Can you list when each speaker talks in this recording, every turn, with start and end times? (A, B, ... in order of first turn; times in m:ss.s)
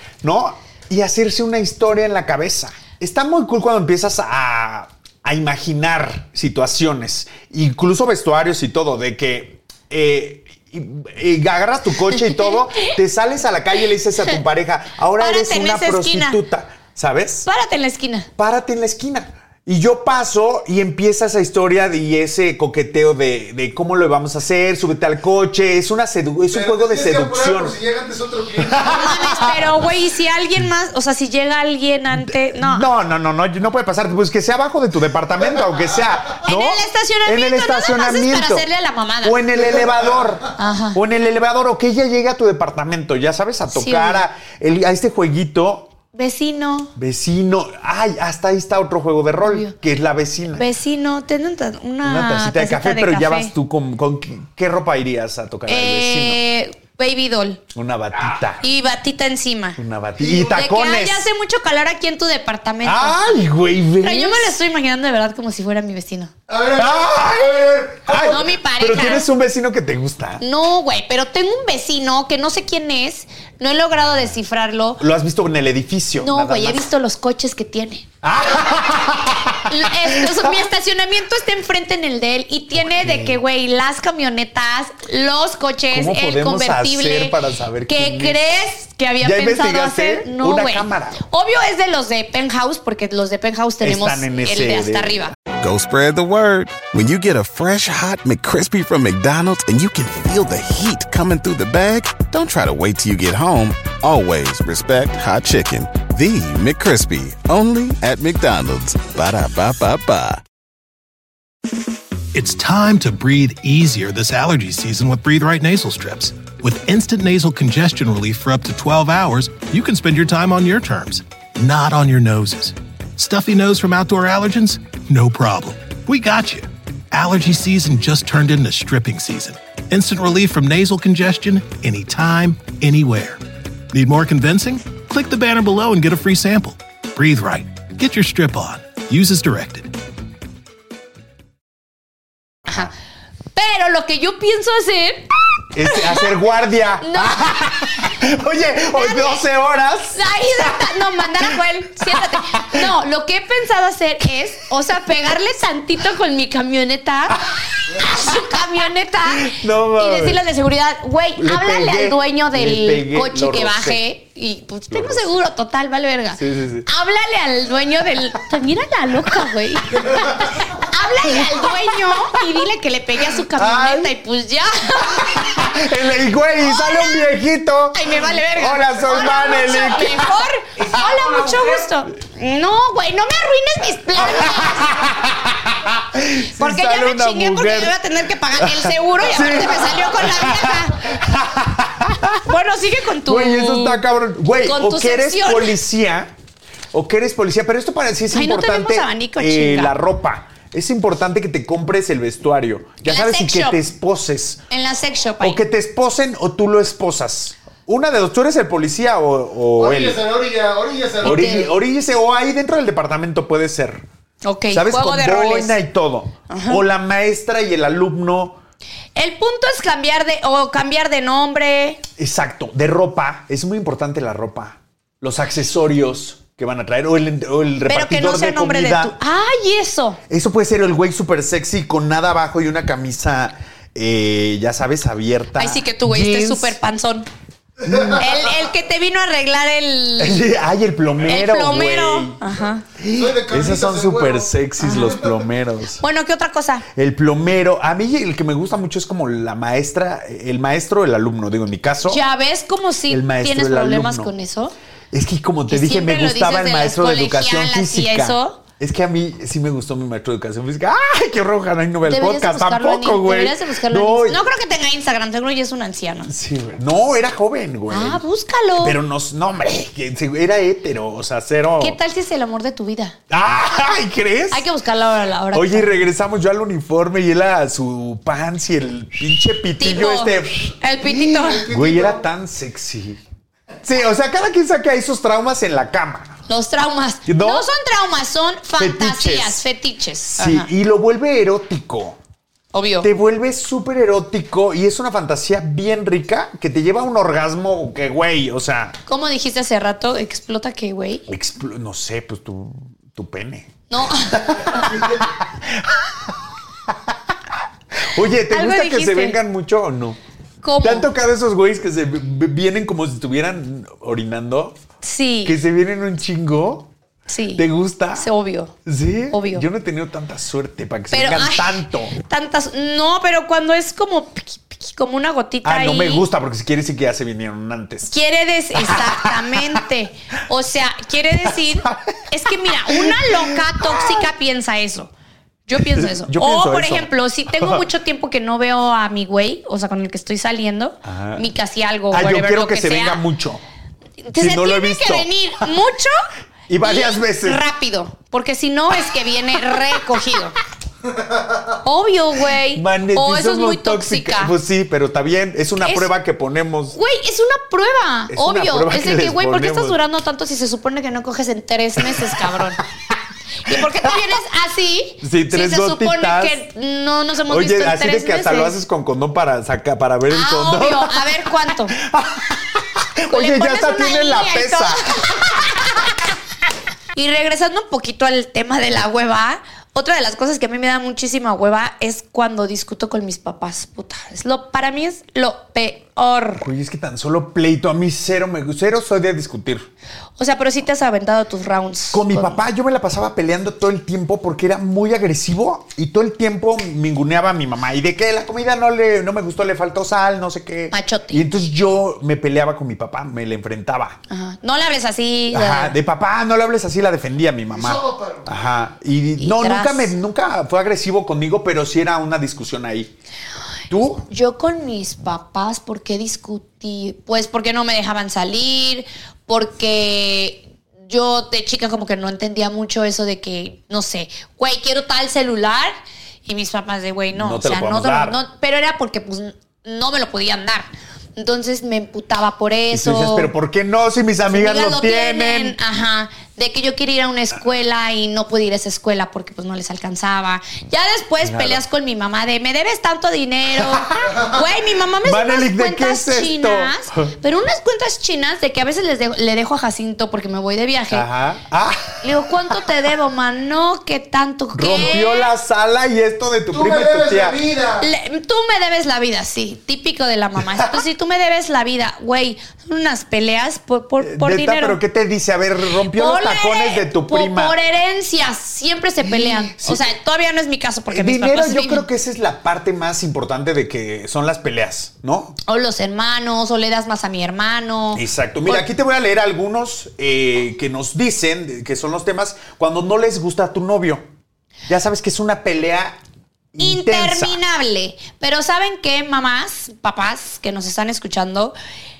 0:00.2-0:17.5 A
0:12.2-0:12.9 B
0:15.2-0:16.4 B
0:17.4-0:18.3 B
0:18.4-0:27.8 A
0:26.5-0:29.4 C
0:28.6-0:29.6 A
0:28.8-0:32.9 B
0:32.1-0:38.6 A
0:36.4-0:39.4 B
0:39.2-0:45.9 A
0:40.6-0:41.0 B
0:43.7-0:44.2 B
0:46.1-0:46.9 B
0:47.0-0:50.6 A
0:49.4-0:49.7 B
0:50.5-0:53.5 B
0:52.0-0:56.4 A
0:55.6-0:57.6 B
0:57.7-0:58.6 A
0:58.6-0:59.8 B
0:59.8-1:01.3 A
1:00.3-1:03.4 B
1:02.8-1:04.6 A
1:04.0-1:06.3 B
1:06.5-1:08.3 C
1:06.7-1:10.4 A
1:08.1-1:09.3 B
1:10.4-1:15.0 B
1:15.0-1:16.9 A
1:16.2-1:18.1 B
1:18.2-1:20.6 A
1:19.6-1:35.3 B
1:22.8-1:23.4 A
1:25.9-1:28.4 A
1:29.2-1:31.2 A
1:33.8-1:35.3 A
1:35.6-1:50.4 D
1:52.3-2:13.4 E
2:13.9-2:19.9 E
2:23.5-2:25.3 B
2:25.7-2:30.9 A
2:25.8-2:26.3 B
2:27.0-2:28.1 B
2:28.9-2:29.4 B
2:30.1-2:55.8 B
2:32.1-2:32.8 A
2:37.9-2:38.4 A
2:39.2-2:40.4 A
2:41.4-2:44.0 A
2:44.9-2:45.3 A
2:46.4-2:46.9 A
2:51.2-2:52.4 A
2:53.4-2:54.1 A
2:55.0-3:00.4 A
2:56.6-2:57.3 B
2:57.9-3:05.0 B
3:04.1-3:08.0 A
3:06.4-3:11.1 B
3:08.6-3:12.5 A
3:12.4-3:14.0 B
3:13.2-3:16.3 A
3:14.6-3:15.8 B
3:16.9-3:24.6 A
3:18.3-3:20.0 B
3:23.0-3:23.8 B
3:24.7-3:25.6 B
3:25.4-3:30.2 A
3:29.8-3:31.6 C
3:31.2-3:34.0 A
3:31.2-3:31.7 B
3:34.4-3:35.8 B
3:34.7-3:38.6 A
3:36.5-3:36.8 B
3:39.2-3:42.0 B
3:42.2-3:49.2 A
3:47.9-3:50.2 B
3:50.3-3:56.8 A
3:55.6-3:57.3 B
3:57.8-3:58.2 C
3:57.9-3:58.2 A
3:58.1-4:00.4 B
4:00.2-4:02.4 A
4:01.3-4:02.8 B
4:03.0-4:06.0 A
4:03.1-4:05.4 C
4:04.8-4:05.2 B
4:06.0-4:06.8 B
4:06.9-4:12.2 A
4:12.0-4:14.7 B
4:13.1-4:14.3 A
4:15.1-4:24.4 A
4:15.7-4:18.6 B
4:22.0-4:26.3 B
4:26.3-4:28.2 A
4:27.9-4:29.0 B
4:28.8-4:32.0 A
4:31.8-4:33.2 B
4:33.3-4:34.7 A
4:34.5-4:35.9 B
4:35.5-4:43.2 A
4:39.8-4:41.7 B
4:41.4-4:42.2 C
4:43.8-4:46.4 A
4:46.5-4:50.7 B
4:47.2-4:47.7 A
4:48.8-4:49.7 A
4:50.3-4:52.2 A
4:52.7-4:53.1 B
4:53.0-4:59.0 A
4:59.1-5:01.3 B
5:01.3-5:07.1 A
5:03.9-5:04.9 B
5:07.9-5:10.2 A
5:08.5-5:09.4 B
5:10.6-5:11.1 B
5:10.8-5:14.8 A
5:15.0-5:15.6 B
5:15.4-5:16.9 A
5:17.3-5:17.6 B
5:17.6-5:18.3 A
5:18.2-5:18.8 B
5:18.8-5:22.1 A
5:19.3-5:19.6 B
5:21.1-5:26.2 B
5:25.6-5:28.1 A
5:28.1-5:35.1 B
5:28.8-5:29.8 A
5:31.8-5:32.1 A
5:32.7-5:34.3 A
5:35.7-5:43.2 B
5:35.8-5:37.8 A
5:41.0-5:41.5 A
5:42.1-5:43.6 A
5:44.2-5:46.2 B
5:44.4-5:45.8 A
5:46.7-5:47.7 A
5:46.8-5:50.6 B
5:51.1-5:51.5 C
5:51.8-5:54.5 B
5:52.6-5:57.0 A
5:55.8-5:56.1 B
5:56.9-6:02.8 B
5:58.3-6:00.0 A
6:02.0-6:04.2 A
6:03.6-6:08.8 B
6:05.2-6:06.6 A
6:07.5-6:16.0 A
6:10.3-6:12.0 B
6:13.3-6:16.1 B
6:17.1-6:26.7 B
6:26.6-6:29.9 A
6:30.4-6:32.6 B
6:32.1-6:44.2 A
6:40.9-6:41.4 B
6:44.3-6:45.9 B
6:45.5-6:53.1 A
6:47.7-6:48.5 C
6:49.4-6:50.1 B
6:53.9-6:54.2 A
6:54.2-7:05.9 B
7:06.4-7:13.5 B
7:07.3-7:08.4 A
7:12.9-7:15.8 A
7:14.5-7:31.3 B
7:21.4-7:21.8 A
7:23.7-7:24.5 A
7:25.2-7:27.3 A
7:31.1-7:32.2 A
7:32.2-7:35.5 B
7:34.7-7:37.6 A
7:36.7-7:38.1 C
7:38.0-7:45.0 B
7:40.7-7:41.0 A
7:44.2-7:47.8 A
7:46.1-7:52.0 B
7:49.2-7:50.0 A
7:51.1-7:55.6 A
7:55.6-7:58.8 B
7:58.1-8:04.2 A
8:04.9-8:06.2 A
8:06.7-8:07.6 A
8:06.8-8:11.7 B